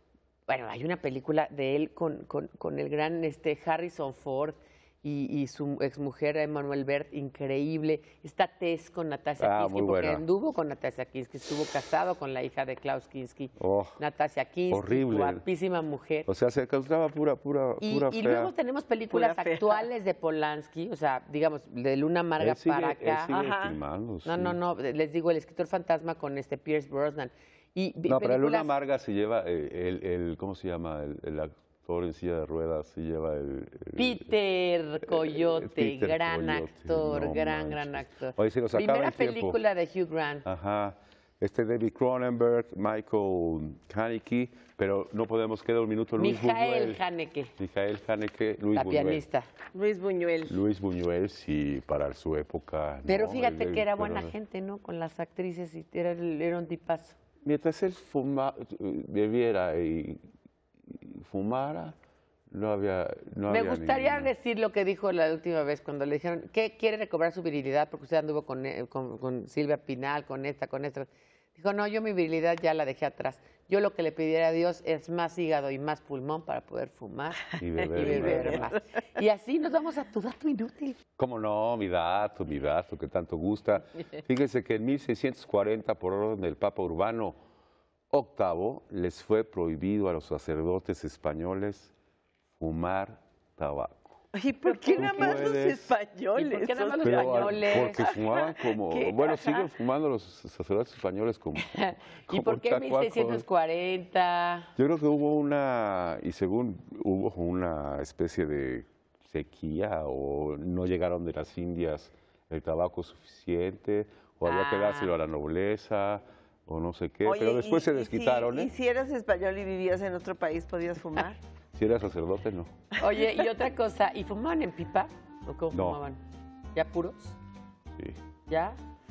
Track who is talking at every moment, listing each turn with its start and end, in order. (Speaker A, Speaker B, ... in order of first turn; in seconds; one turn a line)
Speaker A: 0.5-16.3
Speaker B: 9.4-10.2
Speaker B: 13.6-14.0
Speaker B: 14.7-15.4
Speaker B: 16.3-18.5
Speaker A: 17.8-23.3
Speaker C: 19.1-19.8
Speaker B: 22.4-24.6
Speaker C: 23.3-23.8
Speaker A: 24.2-28.7
Speaker B: 28.1-34.3
Speaker A: 34.0-40.5
Speaker B: 35.0-39.6
Speaker B: 40.4-47.0
Speaker A: 46.2-47.5
Speaker B: 47.6-49.2
Speaker A: 48.7-49.5
Speaker C: 49.7-50.6
Speaker B: 50.5-54.3
Speaker A: 53.0-57.2
Speaker B: 57.4-60.2
Speaker B: 60.8-62.0
Speaker B: 62.5-64.3
Speaker A: 63.5-81.0
Speaker B: 77.6-78.7
Speaker C: 77.9-78.7
Speaker B: 81.2-87.3
Speaker B: 88.1-91.9
Speaker B: 92.5-94.2
Speaker C: 94.3-98.2
Speaker A: 94.7-95.5
Speaker B: 94.9-95.9
Speaker A: 96.3-99.2
Speaker B: 97.0-103.4
Speaker C: 99.2-99.6
Speaker A: 101.7-104.7
Speaker B: 104.8-118.7
Speaker A: 114.4-115.1
Speaker C: 117.2-121.4
Speaker B: 121.7-122.8
Speaker A: 123.0-126.2
Speaker B: 125.7-126.0
Speaker A: 126.7-127.4
Speaker B: 127.9-128.2
Speaker A: 128.5-128.8